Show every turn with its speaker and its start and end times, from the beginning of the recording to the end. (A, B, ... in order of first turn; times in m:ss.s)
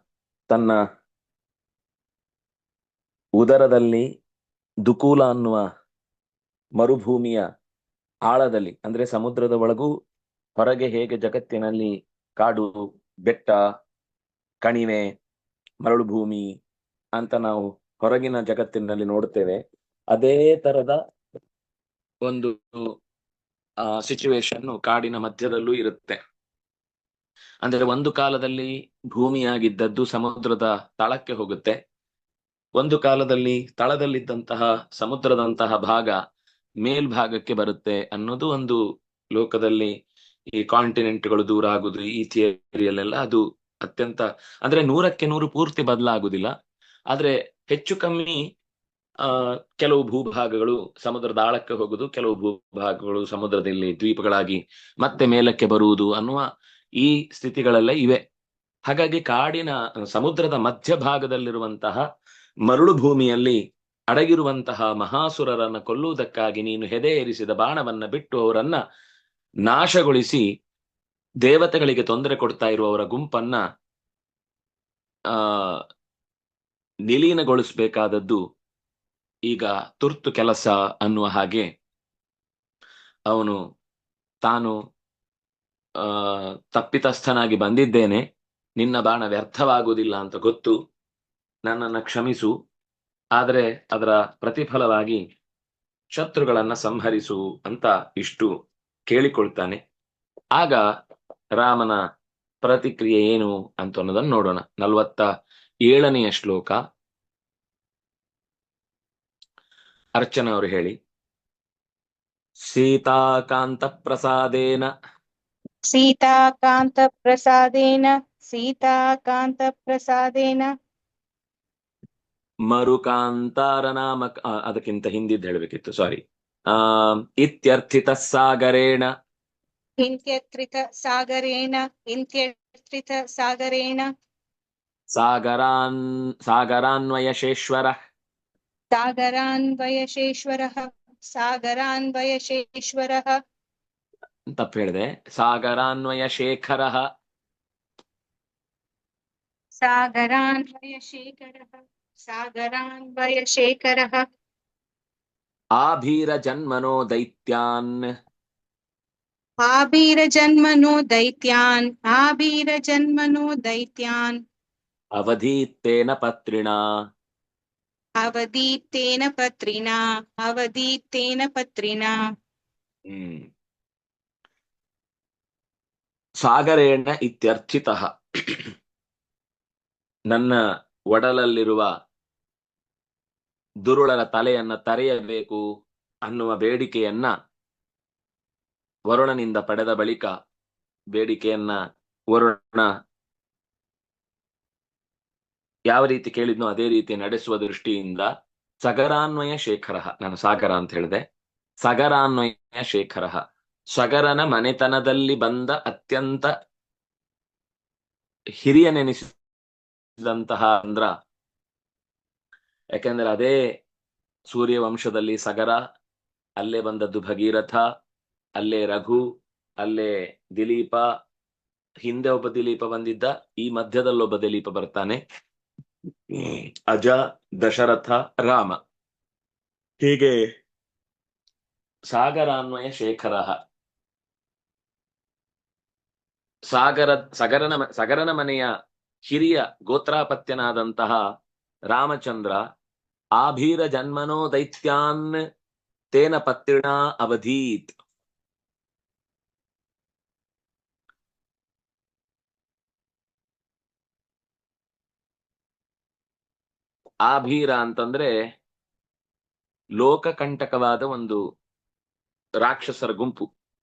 0:00.5-0:00.8 A
0:03.4-0:04.0 A
0:04.9-0:05.6 A
0:06.8-0:07.4 A
0:08.3-0:09.9 A
0:10.6-0:13.6 A
0:14.6-0:15.1 A
0:15.8-0:16.5 A
0:17.2-0:19.6 A
0:20.1-0:21.0 A
0:22.2-0:22.8 A
0:23.8-0:26.2 A
0:27.6-0:31.8 A
0:32.8-0:36.2 A
0:36.8-0:38.8 A
0:39.4-0:39.9 A
0:40.6-0:46.5 A
0:47.1-0:48.4 A
0:49.2-0:56.4 A
0:57.0-0:58.2 A
0:58.9-1:02.0 A
1:02.7-1:03.6 A
1:04.1-1:08.8 A
1:09.7-1:10.4 A
1:11.4-1:13.6 A
1:15.3-1:15.8 A
1:17.1-1:18.4 A
1:19.5-1:21.7 A
1:23.3-1:23.6 A
1:24.4-1:24.8 A
1:26.0-1:28.2 A
1:28.8-1:30.7 A
1:31.6-1:32.5 A
1:33.4-1:35.2 A
1:36.2-1:38.5 A
1:39.1-1:39.8 A
1:40.6-1:40.8 A
1:41.6-1:42.0 A
1:42.6-1:45.3 A
1:45.9-1:46.8 A
1:50.2-1:51.0 A
1:52.6-1:54.9 A
1:55.9-2:00.7 B
2:02.7-2:09.1 A
2:10.0-2:14.1 B
2:15.1-2:18.0 A
2:18.9-2:23.3 B
2:24.6-2:27.0 A
2:29.8-2:34.2 B
2:35.8-2:38.0 A
2:39.6-2:44.4 B
2:45.2-2:46.8 A
2:48.2-2:52.2 B
2:53.1-2:53.5 A
2:56.4-2:58.7 A
3:00.3-3:00.6 A
3:01.1-3:01.9 A
3:03.8-3:05.6 A
3:06.2-3:07.3 A
3:09.1-3:10.3 A
3:11.1-3:11.8 A
3:12.3-3:12.9 A
3:15.9-3:18.3 A
3:18.8-3:21.2 A
3:21.8-3:23.4 A
3:23.9-3:26.5 A
3:28.6-3:29.3 A
3:30.2-3:31.1 A
3:33.0-3:33.6 A
3:34.5-3:35.8 A
3:36.6-3:37.8 A
3:38.6-3:39.2 A
3:39.8-3:41.0 A
3:42.0-3:45.2 A
3:46.3-3:48.8 A
3:50.0-3:50.4 A
3:52.1-3:53.6 A
3:56.7-3:58.7 A
3:59.3-4:01.2 A
4:01.9-4:02.6 A
4:03.4-4:05.3 A
4:06.1-4:08.0 A
4:17.2-4:18.3 A
4:20.0-4:21.4 A
4:22.6-4:23.5 A